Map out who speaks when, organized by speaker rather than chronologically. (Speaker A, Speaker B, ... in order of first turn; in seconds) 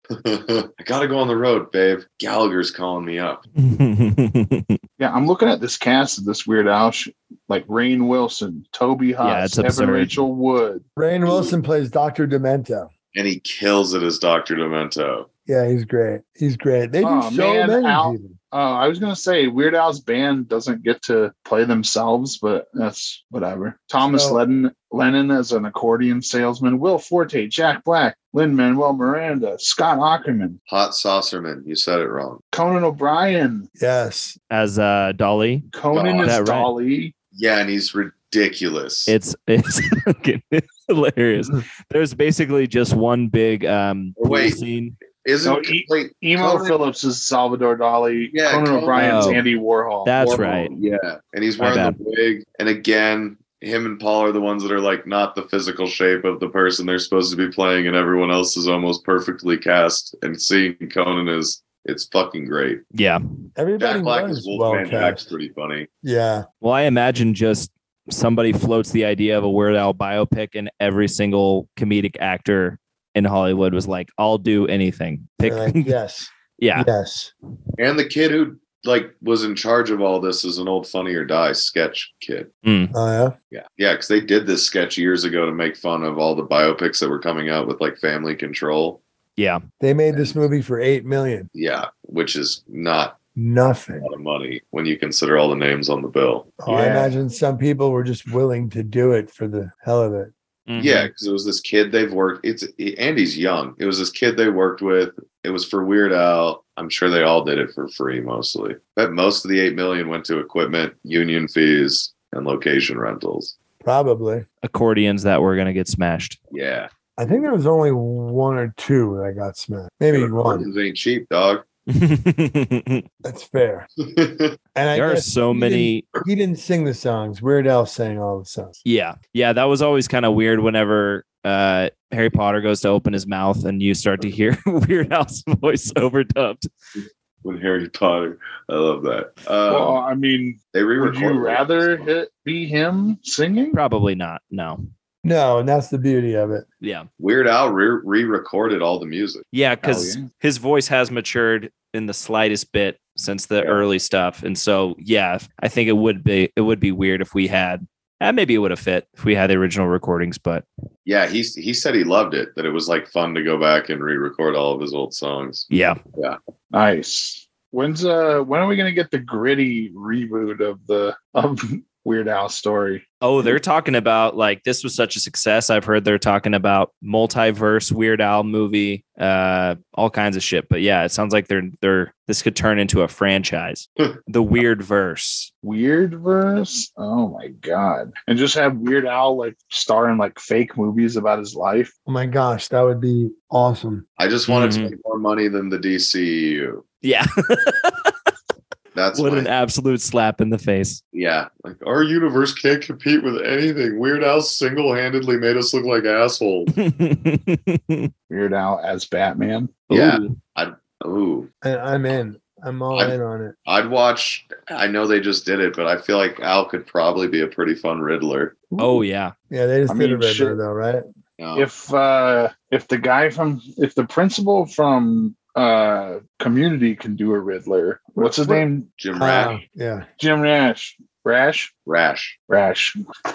Speaker A: 0.1-3.4, 11.2-11.5, 13.1-15.3, 30.7-32.4, 35.9-36.4, 37.3-39.1, 44.2-44.6, 45.2-46.8, 48.3-49.4, 50.2-62.8, 63.8-65.9, 77.8-82.5, 83.5-89.0, 90.1-90.4, 91.5-93.2, 94.0-96.7, 100.8-113.5, 116.5-116.9, 120.1-121.6, 124.0-124.5, 137.4-140.0, 140.7-142.1, 147.2-149.4, 161.1-166.4, 194.2-196.8, 198.9-199.5, 201.1-206.7, 209.9-211.5, 212.9-218.6, 221.4-221.7, 229.0-229.6, 231.9-232.3
Speaker B: 3.6-4.8, 9.2-10.1, 34.5-35.7, 36.2-36.7, 39.1-45.0, 49.0-49.4, 50.0-50.7, 51.6-52.0, 62.9-63.2, 66.6-75.9, 76.6-76.9, 82.6-82.9, 100.7-101.1, 114.6-116.4, 121.9-123.0, 124.9-126.0, 128.8-136.7, 143.7-144.8, 146.8-147.1, 149.5-160.6, 165.7-166.0, 173.2-185.5, 194.5-194.9, 197.0-198.1, 199.1-201.0, 206.8-208.1, 209.9-210.3, 218.8-219.3
Speaker C: 5.0-10.8, 17.0-30.6, 32.5-33.7, 35.7-37.1, 45.4-50.1, 139.7-143.8, 149.8-150.3, 166.7-173.0, 185.6-191.9, 208.3-209.8, 219.9-220.6, 221.6-228.9, 230.2-231.7, 232.5-233.0
Speaker D: 11.0-12.9, 15.5-18.4, 24.0-24.4, 33.8-34.4, 63.6-65.2, 66.0-66.5, 75.4-77.3, 82.9-83.3, 89.8-91.5, 93.3-94.1, 96.6-100.3, 113.8-114.5, 117.2-120.7, 123.2-123.9, 124.7-128.8, 145.2-146.6, 192.1-194.0, 211.6-213.5, 218.7-221.0, 228.1-230.1